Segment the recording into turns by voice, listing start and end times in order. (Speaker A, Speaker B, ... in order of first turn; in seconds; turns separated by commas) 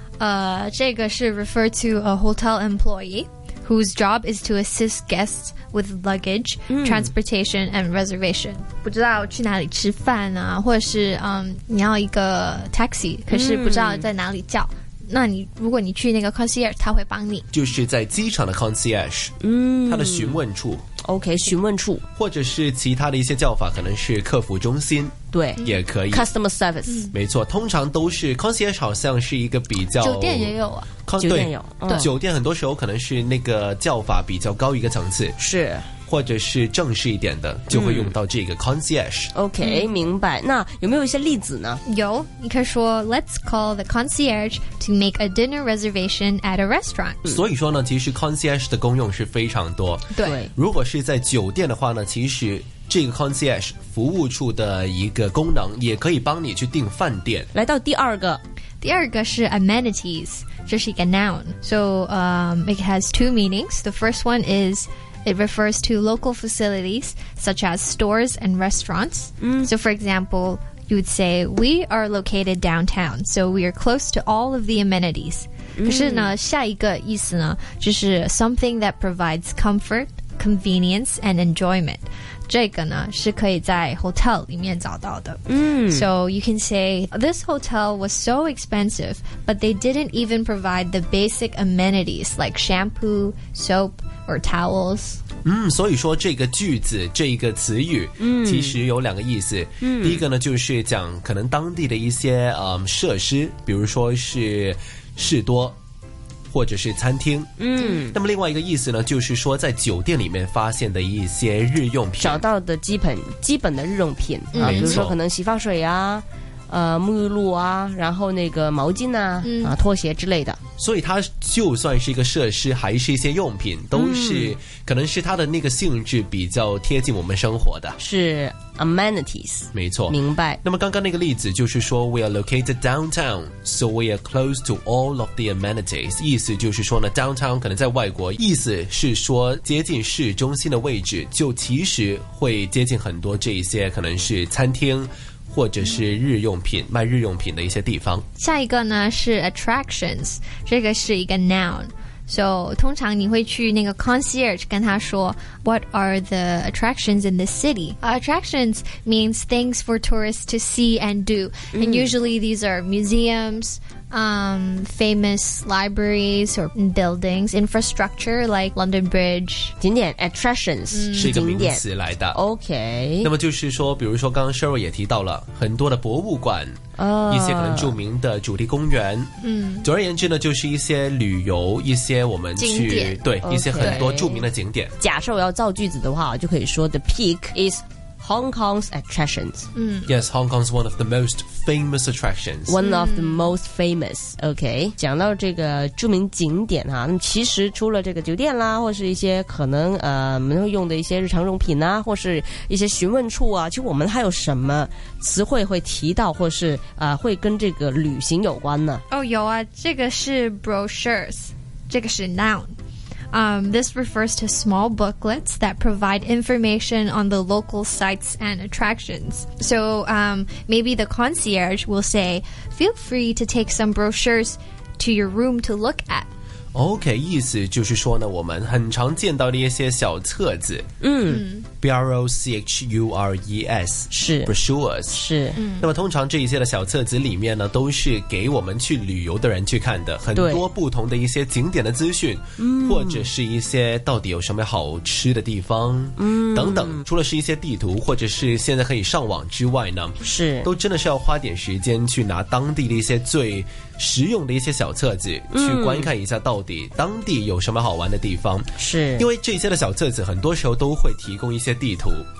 Speaker A: 0.2-17.5, Speaker B: 6.7-7.1, Speaker B: 13.3-14.1, Speaker C: 17.5-19.3, Speaker B: 19.4-20.4, Speaker C: 19.9-20.8, Speaker B: 21.0-22.0, Speaker C: 22.1-26.3, Speaker B: 25.3-27.1, Speaker A: 26.9-27.1, Speaker C: 27.1-30.5, Speaker A: 29.9-30.9, Speaker C: 31.1-35.4, Speaker B: 31.2-32.1, Speaker B: 35.4-35.9, Speaker C: 36.1-39.3, Speaker B: 37.7-38.1, Speaker B: 39.3-41.8, Speaker A: 39.6-39.9, Speaker A: 41.9-47.2, Speaker C: 47.2-57.5, Speaker A: 50.1-50.4, Speaker B: 50.2-50.5, Speaker B: 57.5-58.4, Speaker A: 58.8-95.2, Speaker B: 69.4-69.7, Speaker B: 75.8-76.3, Speaker B: 85.5-86.1, Speaker C: 95.4-105.8, Speaker B: 98.2-98.8, Speaker B: 99.8-100.2, Speaker C: 106.5-112.4, Speaker B: 107.6-108.2, Speaker B: 112.2-120.6, Speaker A: 114.5-115.0, Speaker C: 114.5-115.2, Speaker A: 119.4-119.8, Speaker C: 120.8-128.0, Speaker B: 123.9-124.5, Speaker B: 128.0-130.6, Speaker C: 129.7-148.2, Speaker A: 148.3-169.7, Speaker B: 161.7-162.1, Speaker B: 169.8-173.3, Speaker A: 170.9-171.4, Speaker C: 171.1-172.4, Speaker C: 173.2-179.3, Speaker B: 177.0-177.9, Speaker A: 179.4-179.9, Speaker C: 179.8-184.9, Speaker A: 182.6-183.2, Speaker B: 183.4-184.5, Speaker B: 185.0-189.7, Speaker A: 189.7-190.1, Speaker C: 190.1-192.8, Speaker B: 192.7-209.0, Speaker A: 192.8-193.5, Speaker A: 209.1-212.7, Speaker A: 213.3-226.3, Speaker C: 226.7-230.8, Speaker B: 231.0-231.4, Speaker A: 231.2-231.7, Speaker C: 231.8-235.2, Speaker B: 234.1-234.5, Speaker B: 235.1-235.6, Speaker A: 235.5-235.9, Speaker C: 235.8-262.2, Speaker B: 240.3-240.6, Speaker B: 242.6-243.3, Speaker B: 246.2-247.0, Speaker B: 250.2-250.7, Speaker B: 255.5-256.1, Speaker B: 258.8-259.3